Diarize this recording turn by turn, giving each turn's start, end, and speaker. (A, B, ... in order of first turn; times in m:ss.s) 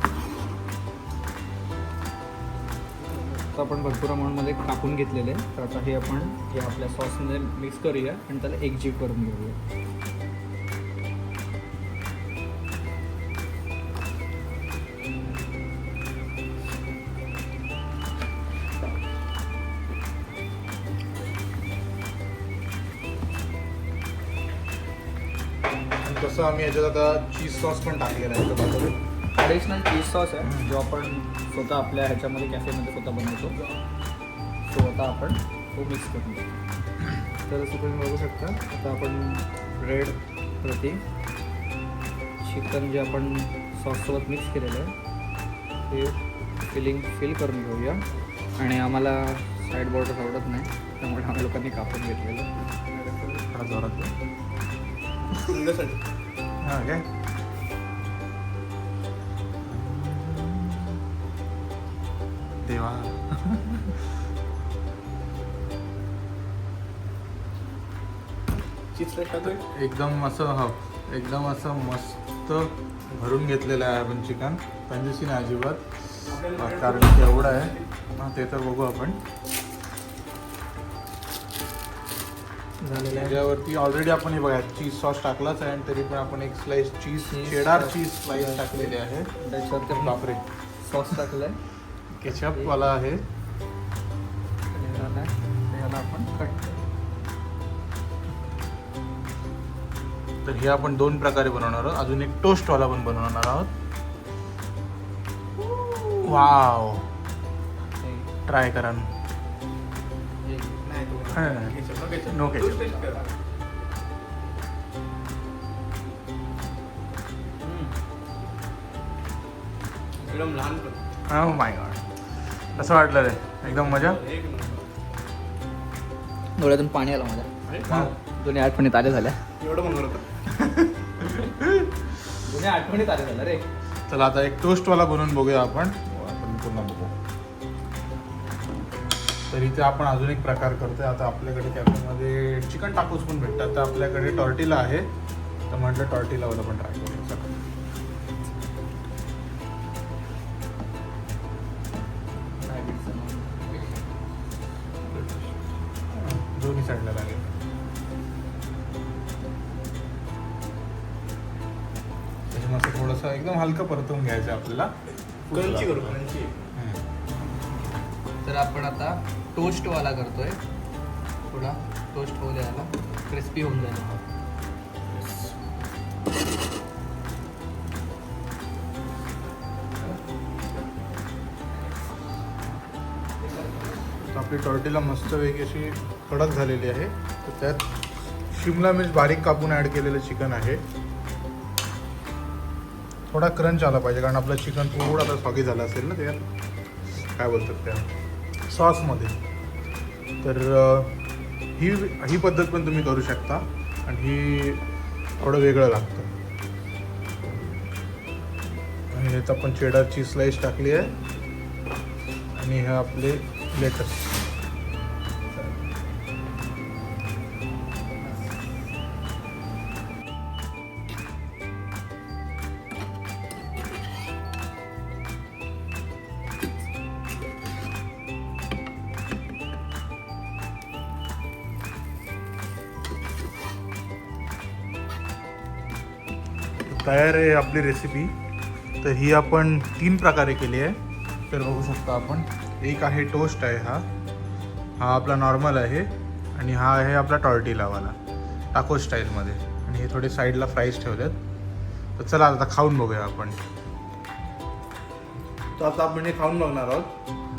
0:03.5-0:09.6 A
0:26.0-0:29.0 B
0:29.4-0:33.6 A
0:30.4-0:30.7 B
0:34.6-0:36.6 A
0:37.5-0:41.0 A
0:42.4-0:44.9 A
0:45.9-0:48.0 A
0:48.6-0:52.5 A
0:52.9-0:53.4 C
0:53.5-0:54.1 B
0:55.3-0:56.0 C
0:56.6-0:57.0 B
0:59.7-1:01.0 B
1:02.6-1:04.0 B
1:08.9-1:09.6 C
1:09.5-1:19.2 B
1:16.3-1:17.9 C
1:22.8-1:23.4 A
1:22.9-1:29.3 B
1:27.3-1:30.2 A
1:29.9-1:30.4 B
1:30.8-1:31.6 A
1:32.1-1:33.2 B
1:32.3-1:32.8 A
1:34.7-1:36.8 A
1:40.4-1:43.7 B
1:45.7-1:46.4 A
1:46.2-1:47.1 B
1:48.0-1:48.3 A
1:48.5-1:49.1 B
1:50.5-1:50.8 A
1:50.8-1:53.2 C
1:51.3-1:52.9 B
1:57.6-1:57.9 A
2:00.2-2:01.0 C
2:01.3-2:02.1 B
2:02.7-2:04.2 B
2:03.6-2:04.9 C
2:06.6-2:09.4 A
2:07.7-2:08.0 C
2:07.8-2:08.1 B
2:09.6-2:10.5 C
2:11.4-2:12.0 B
2:12.4-2:13.7 A
2:14.1-2:17.2 B
2:19.5-2:25.1 B
2:25.7-2:27.6 B
2:32.6-2:34.0 A
2:35.1-2:35.5 A
2:36.1-2:37.5 B
2:42.5-2:44.9 B
2:45.5-2:46.2 B
2:45.5-2:46.5 C
2:46.8-2:47.0 B
2:48.4-2:50.6 A
2:51.5-2:54.2 A
2:55.1-2:55.5 B
3:04.3-3:07.9 B
3:08.5-3:10.8 B
3:13.3-3:16.5 B
3:17.2-3:18.1 B
3:18.7-3:19.4 B
3:20.4-3:21.2 B
3:21.8-3:24.8 B
3:25.4-3:26.3 B
3:29.1-3:31.1 B
3:32.6-3:34.3 B
3:56.9-3:58.3 B
3:59.0-4:01.0 B
4:01.5-4:04.1 B
4:05.0-4:08.2 B
4:08.7-4:11.4 B
4:12.2-4:13.6 B
4:15.8-4:17.1 B